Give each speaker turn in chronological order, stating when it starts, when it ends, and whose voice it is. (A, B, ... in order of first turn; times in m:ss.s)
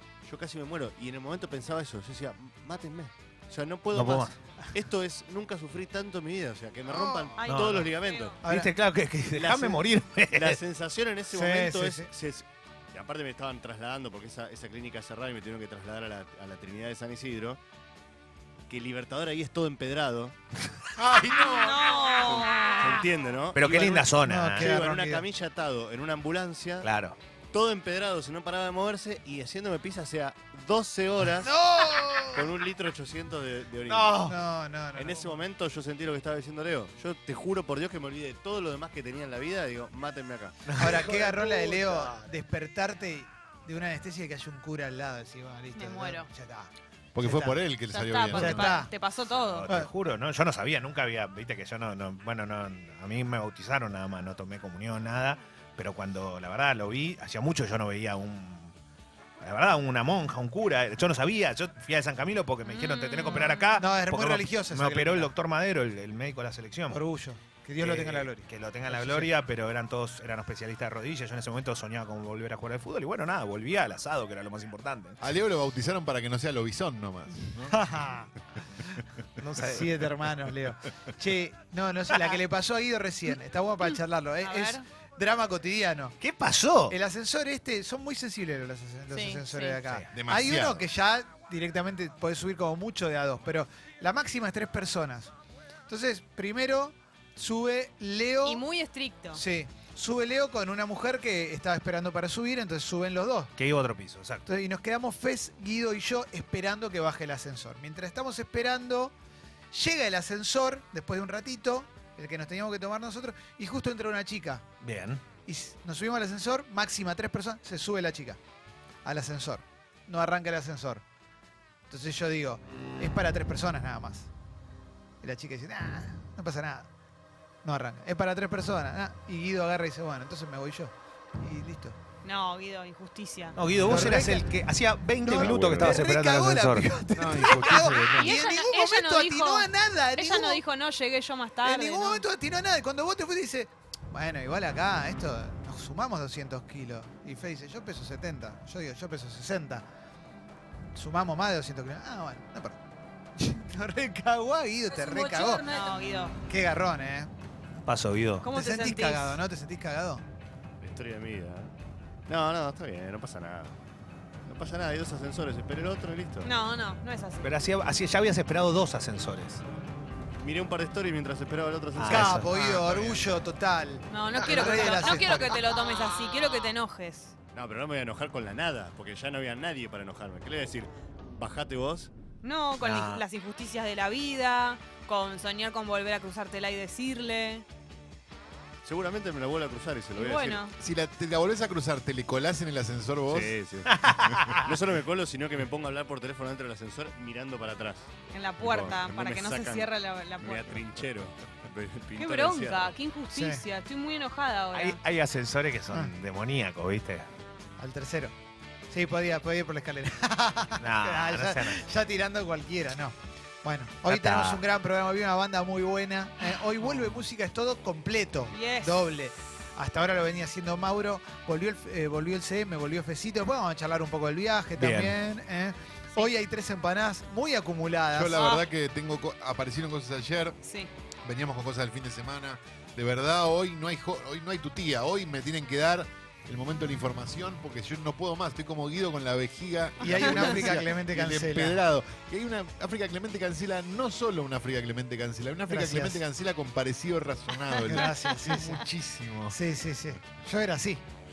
0:00.2-0:08.4 A
0:03.9-0:04.4 B
0:07.4-0:08.4 C
0:07.4-0:07.9 B
0:08.4-0:08.7 D
0:08.4-0:10.6 B
0:09.3-0:17.6 A
0:11.3-0:12.1 D
0:18.7-0:20.4 A
0:21.0-0:22.4 E
0:21.3-0:23.0 C
0:22.8-0:26.9 A
0:23.5-0:24.7 B
0:24.2-0:25.2 D
0:26.8-0:27.2 B
0:27.5-0:31.7 A
0:31.4-0:32.5 D
0:32.2-0:34.2 A
0:33.9-0:34.4 B
0:34.2-0:35.4 D
0:34.9-0:40.7 A
0:40.6-0:41.3 B
0:40.8-0:47.6 D
0:45.7-0:46.3 C
0:47.1-0:48.8 E
0:47.9-0:49.7 C
0:48.3-0:48.9 D
0:49.3-0:58.7 B
0:59.4-1:07.0 B
1:02.6-1:03.8 C
1:03.8-1:05.3 D
1:06.9-1:09.3 D
1:07.8-1:15.2 B
1:15.2-1:17.9 E
1:17.7-1:18.3 D
1:19.4-1:20.0 B
1:19.6-1:26.2 D
1:24.4-1:24.8 C
1:26.2-1:27.0 B
1:26.9-1:35.3 D
1:29.1-1:29.8 C
1:30.1-1:30.9 E
1:35.9-1:38.6 D
1:38.4-1:39.4 C
1:39.3-1:43.5 D
1:43.6-1:44.5 B
1:44.5-1:49.1 D
1:49.7-1:54.6 D
1:54.8-1:55.2 B
1:55.4-1:58.4 D
1:59.0-2:01.0 D
2:01.9-2:04.3 D
2:05.2-2:06.9 D
2:07.6-2:12.0 D
2:12.2-2:13.6 C
2:13.6-2:17.4 B
2:13.8-2:14.5 D
2:15.2-2:20.6 D
2:15.4-2:16.0 E
2:17.1-2:18.4 E
2:17.8-2:22.2 C
2:21.6-2:29.8 D
2:30.9-2:32.8 D
2:33.4-2:35.7 D
2:34.9-2:36.4 C
2:36.4-2:37.3 D
2:37.8-2:38.4 B
2:38.4-2:39.4 C
2:38.5-2:40.2 D
2:40.8-2:41.7 A
2:42.3-2:43.8 A
2:44.4-2:46.5 A
2:46.4-2:47.5 C
2:47.4-2:49.6 B
2:50.4-2:53.3 A
2:52.0-2:53.0 B
2:52.0-2:55.6 D
2:54.1-2:57.3 C
2:57.5-3:02.1 A
3:02.4-3:07.6 C
3:02.8-3:03.2 B
3:08.8-3:10.7 A
3:10.2-3:10.7 C
3:10.8-3:13.5 E
3:13.3-3:23.0 A
3:13.9-3:14.7 B
3:18.3-3:20.8 C
3:22.2-3:25.0 C
3:23.3-3:23.6 D
3:24.7-3:27.3 B
3:27.8-3:28.3 D
3:28.9-3:48.4 D
3:30.8-3:31.8 B
3:34.0-3:34.6 B
3:38.5-3:39.2 C
3:44.8-3:45.2 B
3:48.1-3:50.6 E
3:48.3-3:48.7 C
3:50.6-3:50.9 C
3:51.2-4:09.6 E
4:00.0-4:01.8 D
4:00.1-4:00.6 C
4:05.7-4:06.2 D
4:07.8-4:08.8 D
4:09.5-4:11.0 D